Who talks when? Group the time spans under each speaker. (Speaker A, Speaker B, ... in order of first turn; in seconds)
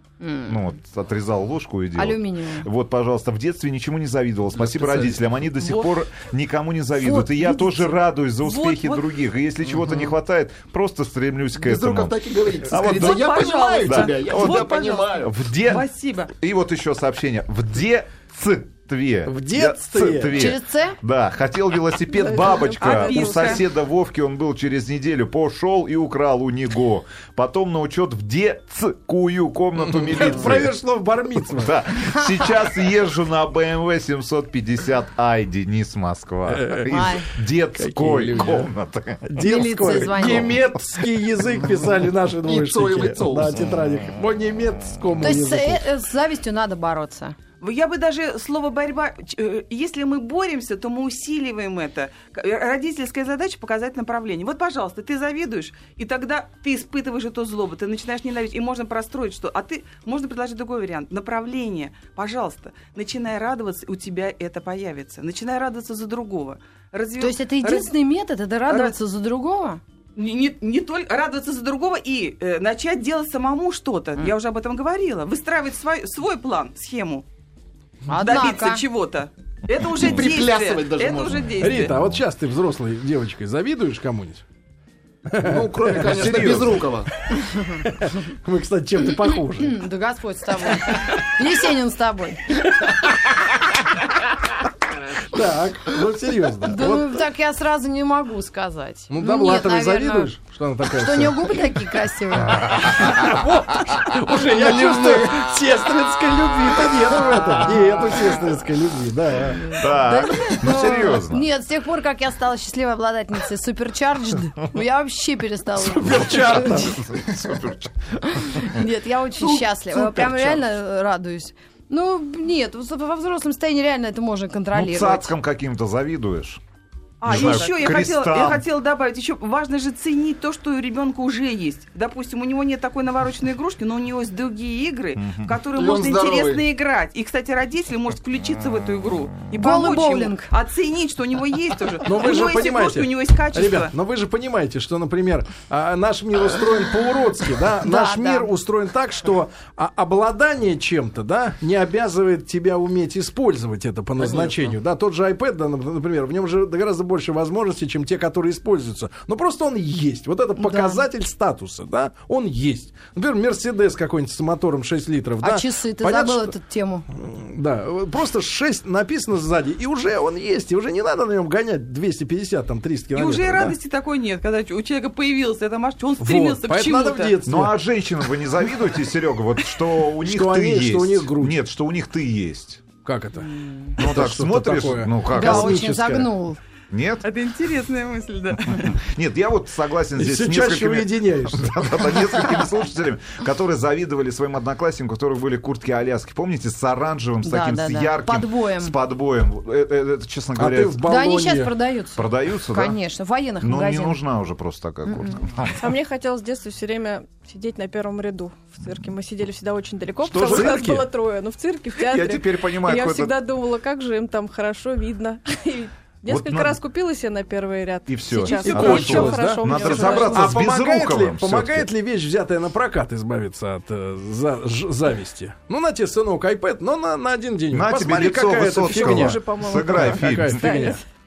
Speaker A: 0.2-0.6, 1.9-2.7, 7.1-7.7, 20.3-21.0, 36.9-37.3, 39.4-40.6, 45.2-47.4, 67.2-69.8, 78.1-78.8, 89.6-92.6, 96.6-100.3, 100.9-103.2, 104.4-105.4, 109.6-117.0, 118.3-125.3, 139.6-140.5, 147.8-148.5, 160.6-161.0, 165.4-167.1, 183.6-183.9, 185.3-186.6, 197.4-198.9, 201.1-204.2, 205.1-205.4
Speaker B: 0.5-12.1, 12.7-30.7, 31.5-39.2, 39.8-40.6, 81.7-82.2, 85.8-86.8, 109.6-111.4, 116.1-117.9, 118.5-118.8, 124.7-126.6, 127.2-128.6, 135.2-135.5, 177.4-182.8, 184.0-185.8, 186.9-187.3, 188.8-201.1, 202.2-203.0, 203.6-205.9, 210.2-210.8, 212.0-213.4, 216.3-216.8, 218.1-221.9, 227.7-230.7
Speaker C: 4.5-5.2, 11.6-15.3, 42.4-43.6, 79.9-81.4, 85.4-87.1, 135.7-136.6
Speaker D: 8.4-9.1, 12.8-16.3, 22.8-23.6, 47.6-67.9, 68.7-69.0, 70.2-77.2, 78.1-81.9, 119.4-120.0, 127.2-143.9, 173.1-177.4, 187.2-189.0
Speaker E: 19.3-20.5, 29.9-31.7, 36.5-36.9, 37.8-38.7, 39.2-45.8, 81.6-84.4, 85.3-86.7, 87.8-89.8, 95.1-97.2, 99.1-101.5, 102.7-109.8, 115.9-117.0, 142.1-166.6, 167.1-173.8, 176.2-177.8, 180.2-181.6, 183.0-186.3, 190.2-191.8, 200.6-201.7, 210.4-211.1, 218.6-231.0
Speaker F: 22.2-23.6, 205.8-220.6, 228.6-231.0